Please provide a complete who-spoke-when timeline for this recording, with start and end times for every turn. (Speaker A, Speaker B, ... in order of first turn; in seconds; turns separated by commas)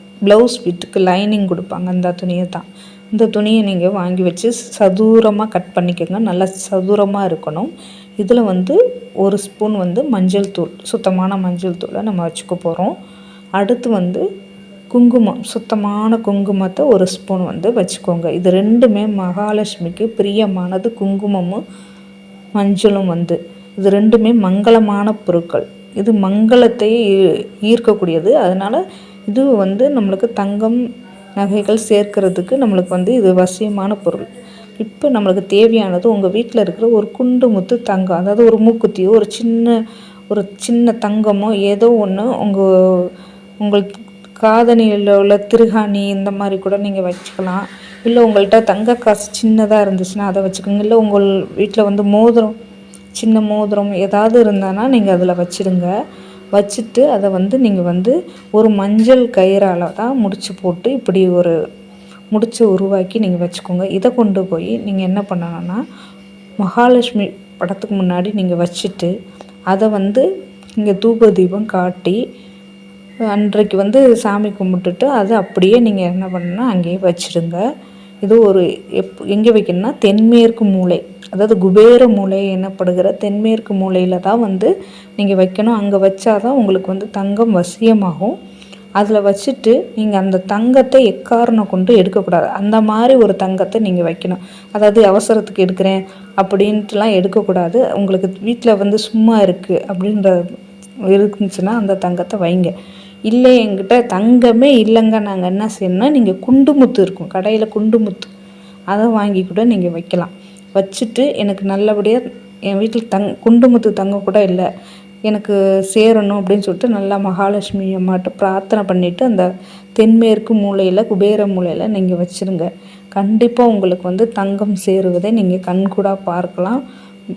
Speaker A: 0.3-12.9, Speaker A: 13.6-14.2, Speaker A: 14.9-21.6, Speaker A: 22.6-27.0, Speaker A: 27.6-30.8, Speaker A: 31.4-39.7, Speaker A: 40.3-43.1, Speaker A: 43.6-52.5, Speaker A: 53.1-55.9, Speaker A: 56.5-61.5, Speaker A: 62.3-65.8, Speaker A: 66.6-69.1, Speaker A: 69.7-70.2, Speaker A: 70.8-72.2, Speaker A: 73.3-77.6, Speaker A: 78.2-88.3, Speaker A: 89.0-100.4, Speaker A: 101.1-102.7, Speaker A: 103.3-108.3, Speaker A: 108.9-114.7, Speaker A: 115.3-126.8